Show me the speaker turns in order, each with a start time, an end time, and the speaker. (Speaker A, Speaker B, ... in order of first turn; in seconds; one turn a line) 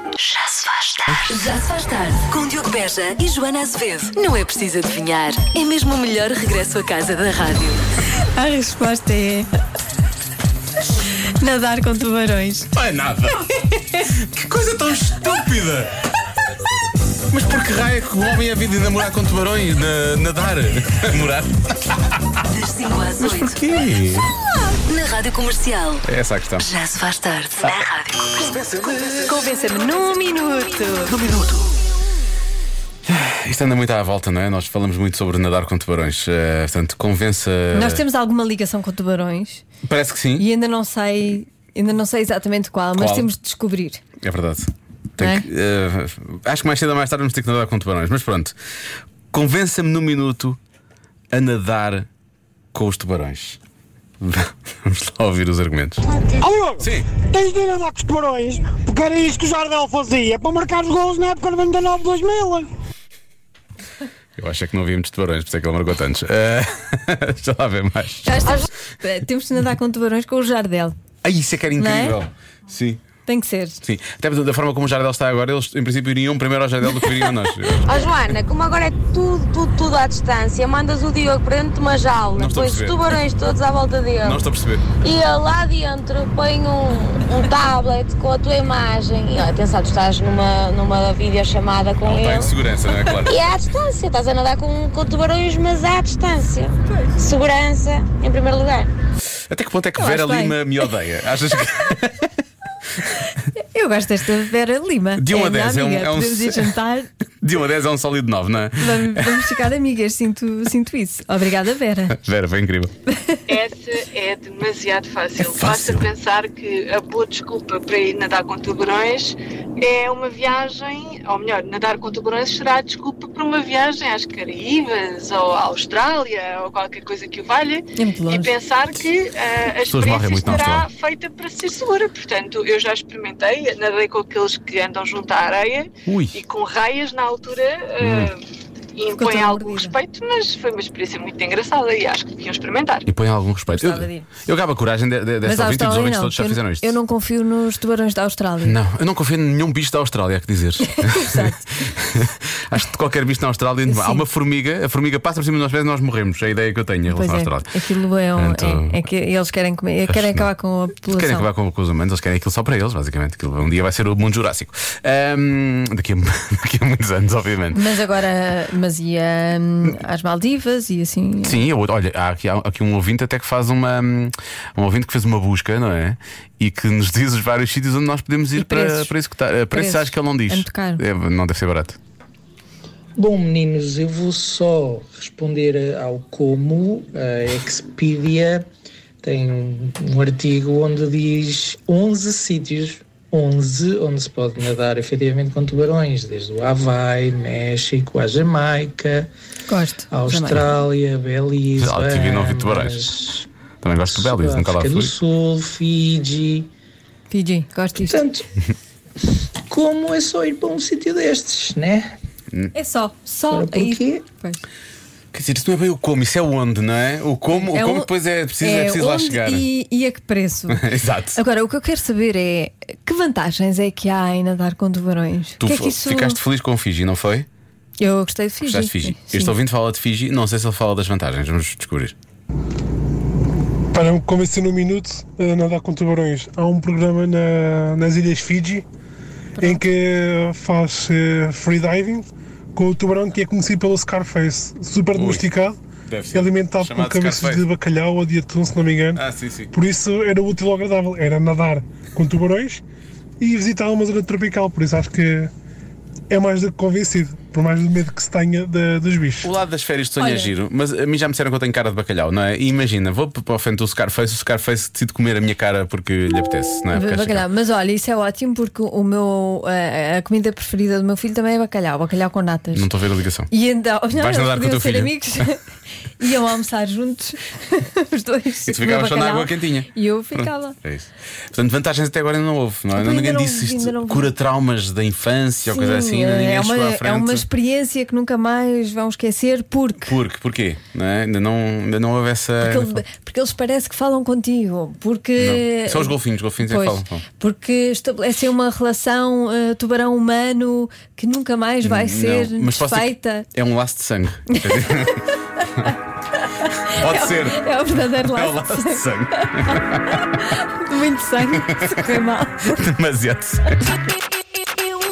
Speaker A: 0.2-7.8
Speaker B: 8.3-9.5
Speaker B: 11.4-12.7
Speaker C: 12.7-13.4
Speaker C: 14.0-15.9
Speaker C: 17.3-22.2
Speaker A: 22.5-23.6
Speaker C: 23.2-24.3
Speaker A: 24.9-26.0
Speaker C: 26.1-26.7
Speaker A: 26.6-28.5
Speaker C: 28.4-29.2
Speaker A: 29.3-29.8
Speaker B: 29.4-31.1
Speaker A: 31.1-31.3
Speaker C: 33.0-38.0
Speaker B: 37.7-39.6
Speaker C: 39.9-40.5
Speaker B: 40.4-44.0
Speaker C: 43.0-43.3
Speaker C: 44.2-48.5
Speaker B: 45.2-45.5
Speaker C: 49.3-50.6
Speaker C: 51.3-52.1
Speaker C: 52.7-53.6
Speaker C: 54.2-56.0
Speaker D: 56.4-62.7
Speaker C: 56.8-57.1
Speaker C: 64.4-68.5
Speaker B: 68.2-70.9
Speaker C: 71.2-73.0
Speaker B: 71.8-72.2
Speaker B: 73.2-73.8
Speaker C: 73.8-77.9
Speaker E: 77.8-84.4
Speaker C: 82.3-83.2
Speaker C: 84.2-84.8
Speaker E: 85.0-92.5
Speaker C: 92.0-93.4
Speaker E: 93.2-98.9
Speaker C: 99.5-102.3
Speaker B: 100.0-100.6
Speaker B: 103.5-107.1
Speaker C: 105.2-106.8
Speaker C: 107.4-109.5
Speaker B: 108.8-112.2
Speaker C: 112.1-112.9
Speaker B: 113.1-113.4
Speaker F: 113.5-138.4
Speaker C: 115.4-116.1
Speaker B: 128.0-128.5
Speaker C: 129.8-130.9
Speaker C: 136.1-136.4
Speaker C: 138.0-138.3
Speaker F: 139.0-143.1
Speaker B: 139.2-139.9
Speaker C: 143.1-146.9
Speaker B: 143.7-144.3
Speaker B: 145.4-148.8
Speaker C: 148.6-157.7
Speaker B: 151.0-151.6
Speaker B: 153.8-154.2
Speaker B: 157.1-161.5
Speaker C: 158.3-159.0
Speaker C: 160.1-160.5
Speaker C: 161.1-167.8
Speaker B: 167.7-171.6
Speaker C: 171.4-182.0
Speaker B: 178.6-179.1
Speaker B: 179.7-181.0
Speaker G: 183.2-188.7
Speaker G: 189.2-199.3
Speaker B: 199.7-200.7
Speaker G: 200.1-203.4
Speaker C: 201.8-203.2
Speaker C: 203.8-205.1
Speaker G: 204.1-206.7
Speaker B: 207.3-208.2
Speaker G: 208.1-208.5
Speaker G: 209.7-212.1
Speaker B: 212.7-214.6
Speaker G: 213.5-214.2
Speaker C: 215.3-219.7
Speaker B: 217.5-220.8
Speaker C: 220.7-221.4
Speaker B: 221.3-226.4
Speaker C: 225.6-227.5
Speaker B: 228.0-229.5
Speaker C: 228.6-232.1
Speaker H: 233.9-238.8
Speaker B: 239.6-239.8
Speaker H: 239.6-245.8
Speaker C: 245.1-245.4
Speaker C: 246.1-247.7
Speaker H: 246.3-252.8
Speaker C: 249.2-249.7
Speaker H: 253.4-255.5
Speaker H: 256.3-259.5
Speaker C: 259.4-267.4
Speaker B: 260.2-260.5
Speaker B: 266.9-272.9
Speaker C: 272.7-273.5
Speaker B: 273.5-275.6
Speaker C: 274.1-275.4
Speaker B: 276.2-280.8
Speaker C: 278.7-287.4
Speaker B: 282.9-284.3
Speaker B: 285.7-290.1
Speaker C: 290.1-293.0
Speaker B: 292.6-303.4
Speaker C: 295.4-297.2
Speaker C: 301.8-305.9
Speaker B: 306.4-312.8
Speaker C: 306.8-310.1
Speaker C: 312.7-313.8